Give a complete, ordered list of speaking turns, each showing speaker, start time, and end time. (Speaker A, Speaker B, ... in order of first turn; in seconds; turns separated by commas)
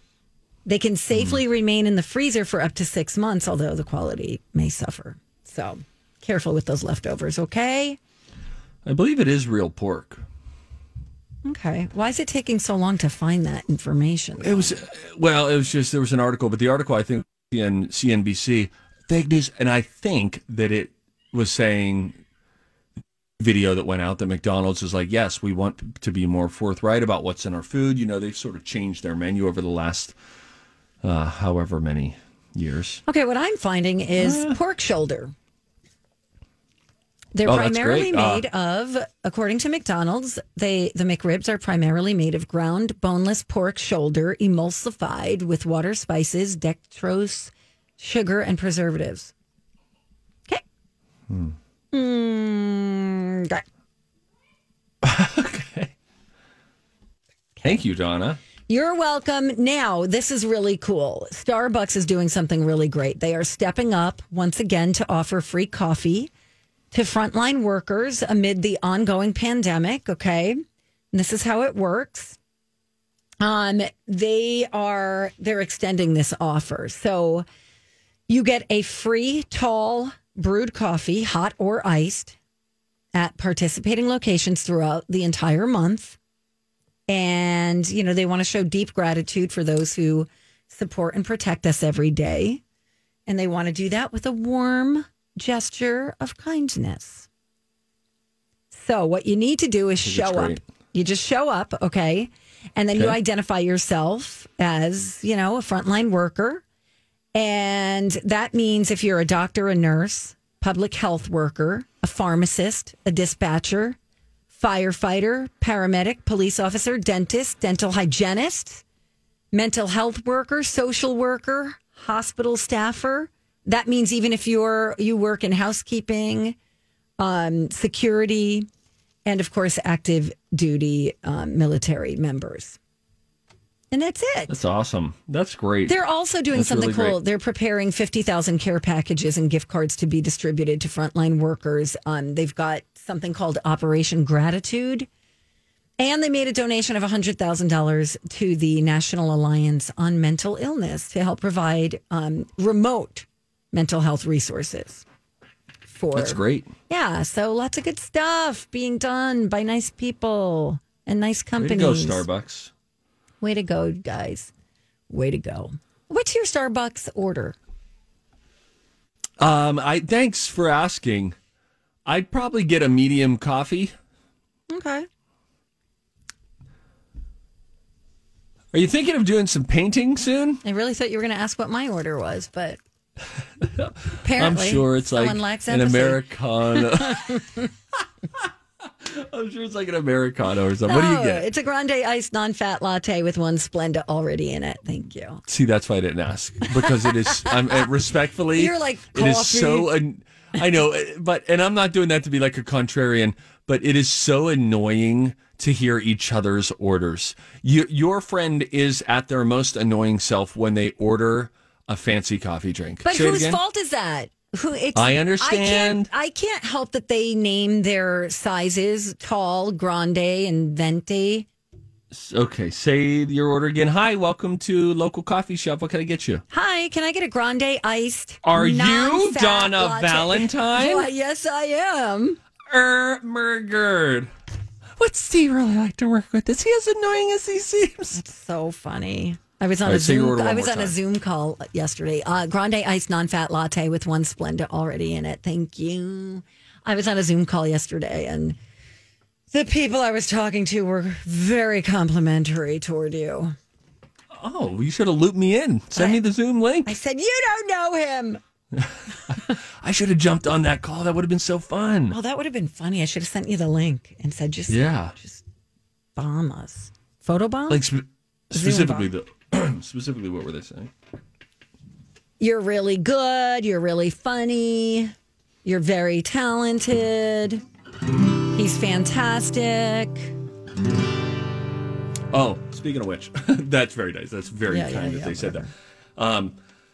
Speaker A: 0.7-8.0, Speaker B: 1.1-1.4, Speaker B: 8.8-10.2, Speaker A: 11.4-14.7, Speaker B: 14.4-22.2, Speaker B: 23.4-30.1, Speaker B: 31.0-33.0, Speaker A: 33.0-35.3, Speaker B: 34.2-34.5, Speaker A: 37.3-49.3, Speaker B: 37.4-38.4, Speaker B: 51.3-51.5, Speaker A: 51.9-53.6, Speaker B: 55.0-55.9, Speaker B: 57.6-58.4, Speaker A: 58.7-66.3, Speaker A: 66.9-70.6, Speaker A: 71.1-72.3, Speaker A: 73.4-77.4, Speaker A: 78.3-82.3, Speaker A: 83.1-86.2, Speaker A: 87.1-92.6, Speaker A: 93.3-97.3, Speaker A: 98.7-106.6, Speaker B: 100.0-100.6, Speaker A: 107.3-114.0, Speaker A: 114.5-118.8, Speaker A: 119.5-126.5, Speaker A: 127.2-128.7, Speaker A: 129.2-132.8, Speaker A: 133.9-134.6, Speaker B: 134.5-136.0, Speaker A: 135.9-145.1, Speaker B: 136.5-137.2, Speaker A: 146.0-155.0, Speaker A: 155.9-162.2, Speaker B: 156.1-156.7, Speaker B: 161.6-162.7, Speaker A: 163.4-164.5, Speaker A: 165.1-167.6, Speaker B: 169.4-171.3, Speaker B: 172.1-173.9, Speaker A: 174.7-175.1, Speaker B: 178.7-180.6, Speaker A: 180.6-182.8, Speaker B: 183.6-187.4, Speaker A: 184.2-186.2, Speaker A: 186.8-187.6, Speaker B: 189.0-191.4, Speaker A: 190.9-195.4, Speaker B: 195.5-213.6, Speaker A: 196.9-197.5, Speaker A: 198.6-199.9, Speaker A: 213.0-221.5, Speaker B: 214.9-216.1, Speaker B: 222.1-226.4, Speaker A: 226.5-232.4, Speaker B: 228.4-231.1, Speaker B: 232.7-234.3, Speaker B: 235.0-238.2, Speaker A: 238.1-248.6, Speaker B: 239.8-240.9, Speaker A: 249.5-253.5, Speaker B: 254.3-256.9, Speaker A: 255.9-256.2, Speaker A: 256.9-258.4, Speaker B: 258.7-262.1, Speaker A: 262.1-265.4, Speaker B: 264.7-265.1, Speaker A: 266.1-267.8, Speaker B: 267.7-270.9, Speaker A: 268.5-269.1, Speaker A: 272.4-275.1, Speaker A: 275.6-277.6, Speaker A: 278.5-280.3, Speaker B: 282.3-286.6, Speaker A: 284.7-285.7